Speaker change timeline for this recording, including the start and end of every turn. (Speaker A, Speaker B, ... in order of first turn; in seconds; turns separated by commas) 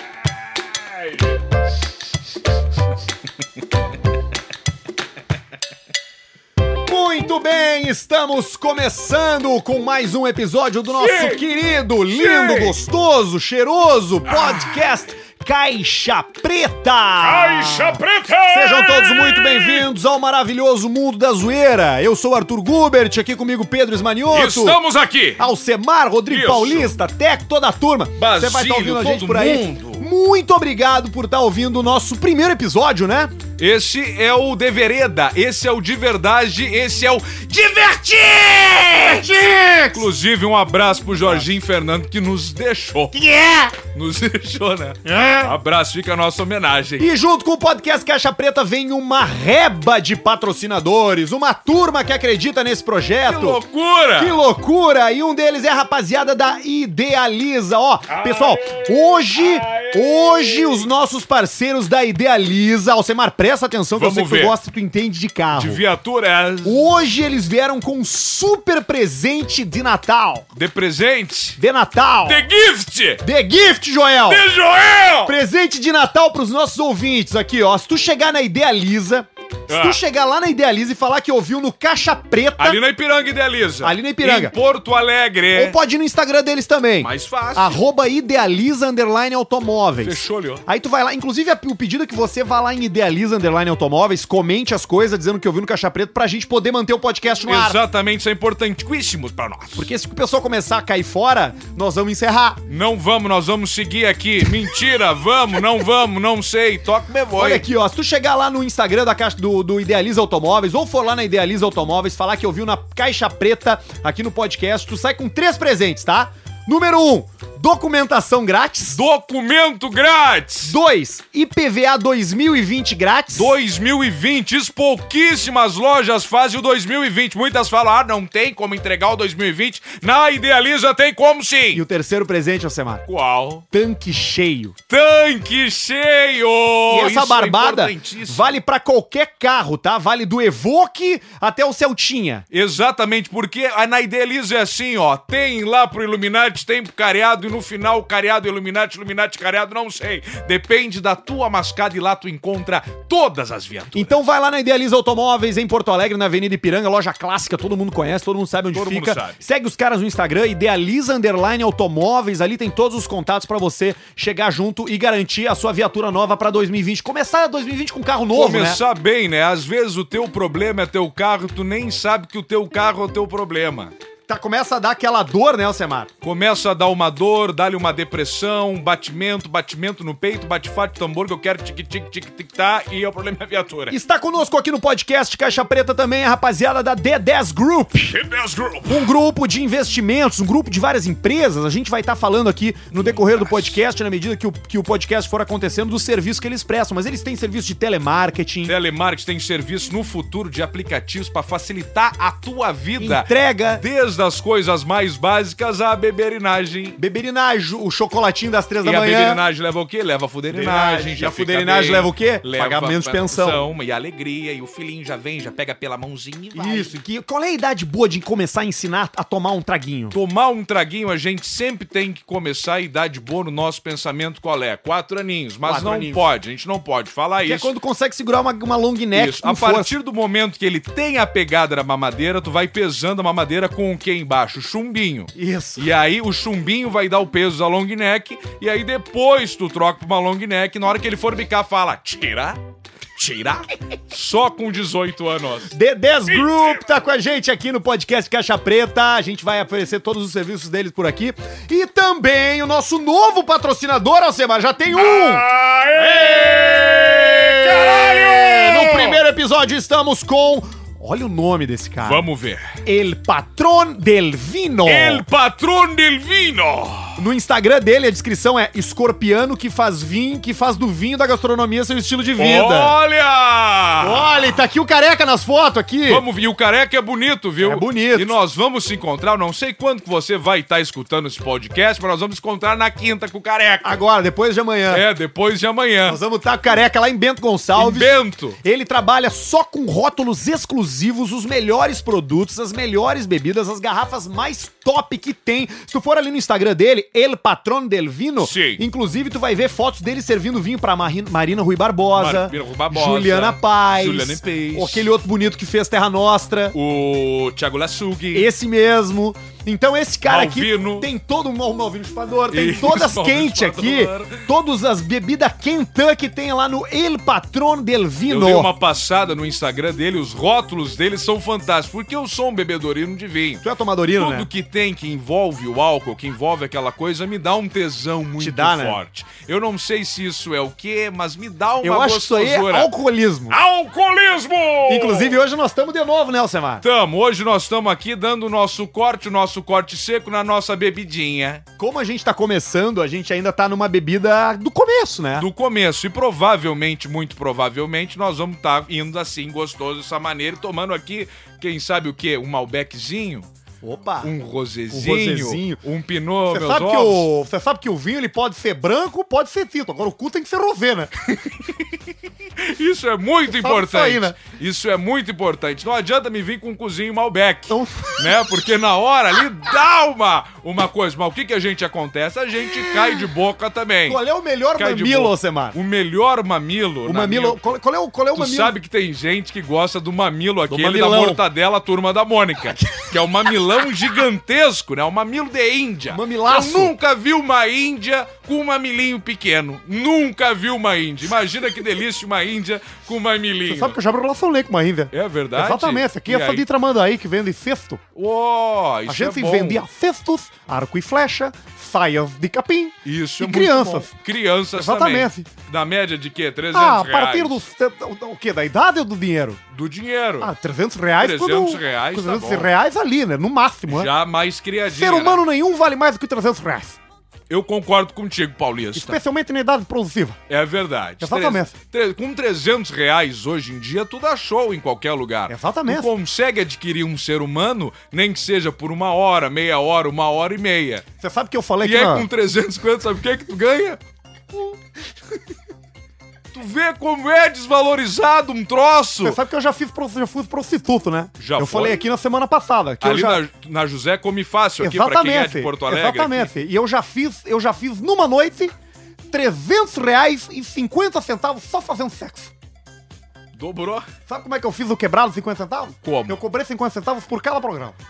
Speaker A: 0.5-1.1, Speaker B: 6.8-24.8, Speaker A: 10.9-11.4, Speaker A: 12.1-12.8, Speaker A: 14.3-14.7, Speaker A: 17.2-19.9, Speaker A: 24.3-25.5, Speaker B: 25.4-33.3, Speaker A: 26.3-26.9, Speaker A: 28.2-30.1, Speaker A: 33.6-47.1, Speaker B: 39.4-39.8, Speaker B: 41.2-41.5, Speaker B: 45.0-45.5, Speaker B: 47.0-53.6, Speaker A: 53.2-54.4, Speaker B: 54.1-65.8, Speaker A: 58.1-60.9, Speaker A: 63.9-64.5, Speaker A: 65.5-66.9, Speaker B: 66.6-70.5, Speaker A: 70.5-71.6, Speaker B: 71.6-72.4, Speaker A: 72.2-73.2, Speaker B: 73.2-74.4, Speaker A: 74.3-75.3, Speaker B: 75.2-82.8, Speaker A: 79.7-80.0, Speaker A: 82.6-85.8, Speaker B: 83.8-84.5, Speaker B: 85.5-97.8, Speaker A: 87.0-87.8, Speaker A: 90.0-90.6, Speaker A: 97.4-99.9, Speaker B: 99.8-102.6, Speaker A: 102.7-107.7, Speaker B: 107.4-119.0, Speaker A: 118.9-120.8, Speaker B: 120.6-123.5, Speaker A: 123.3-131.8, Speaker B: 131.7-133.0, Speaker A: 133.1-133.6, Speaker B: 133.7-134.8, Speaker A: 134.9-138.6, Speaker B: 136.9-142.4, Speaker A: 142.5-154.2, Speaker B: 153.9-168.8, Speaker A: 158.7-159.4, Speaker A: 168.3-173.9, Speaker B: 174.3-176.1, Speaker A: 176.2-183.9, Speaker B: 183.9-188.1, Speaker A: 188.1-189.1, Speaker B: 188.8-198.7, Speaker A: 192.9-193.8, Speaker A: 198.7-207.0, Speaker B: 203.0-203.8, Speaker B: 207.0-209.4, Speaker A: 208.8-216.9, Speaker B: 210.5-213.6, Speaker B: 216.5-220.2, Speaker A: 220.1-227.7, Speaker B: 225.6-226.2, Speaker B: 227.4-229.9, Speaker A: 229.1-242.6, Speaker B: 235.3-235.9, Speaker A: 243.1-245.7, Speaker B: 245.7-255.4, Speaker A: 246.3-246.8, Speaker A: 254.9-259.2, Speaker B: 256.0-262.2, Speaker A: 262.0-262.8, Speaker B: 262.8-265.2, Speaker A: 264.8-267.2, Speaker B: 267.2-272.9, Speaker A: 272.4-274.4, Speaker B: 274.0-276.2, Speaker A: 276.1-284.0, Speaker B: 277.6-278.4, Speaker B: 283.8-285.0, Speaker A: 284.9-286.2, Speaker B: 286.1-306.8, Speaker A: 287.8-288.6, Speaker A: 298.4-298.8, Speaker A: 302.1-305.1, Speaker A: 306.7-308.5, Speaker B: 308.3-318.7, Speaker A: 310.2-311.1, Speaker A: 312.5-314.4, Speaker A: 318.3-323.6, Speaker B: 323.6-324.5, Speaker A: 324.2-332.9, Speaker B: 328.4-329.0, Speaker B: 331.8-333.6, Speaker A: 333.5-335.4, Speaker B: 334.9-336.8, Speaker A: 336.8-341.6, Speaker B: 341.8-345.5, Speaker A: 345.4-353.5, Speaker B: 353.8-354.3, Speaker A: 354.2-357.3, Speaker B: 354.9-355.8, Speaker B: 356.5-361.1, Speaker A: 361.3-374.2, Speaker B: 363.5-364.4, Speaker B: 367.7-368.3, Speaker B: 374.1-375.8, Speaker A: 374.8-377.6, Speaker B: 377.1-378.7, Speaker A: 378.3-394.0, Speaker B: 380.7-381.4, Speaker B: 386.1-386.9, Speaker B: 393.7-398.0, Speaker A: 395.1-396.6, Speaker A: 398.1-399.8, Speaker B: 399.1-404.1, Speaker A: 403.0-407.6, Speaker B: 404.8-405.5, Speaker B: 406.7-409.6, Speaker A: 409.7-410.5, Speaker B: 410.4-414.1, Speaker A: 411.2-412.7, Speaker A: 413.9-415.4, Speaker B: 414.9-417.0, Speaker A: 417.5-419.2, Speaker B: 418.9-420.4, Speaker A: 420.5-431.0, Speaker B: 421.2-421.7, Speaker B: 425.5-426.1, Speaker B: 431.2-432.3, Speaker A: 431.8-434.0, Speaker A: 436.5-439.4, Speaker B: 439.2-443.4, Speaker A: 441.4-442.0, Speaker A: 443.0-446.5, Speaker B: 444.8-448.7, Speaker B: 449.3-452.5, Speaker A: 453.5-454.1, Speaker B: 454.3-458.0, Speaker A: 456.0-456.4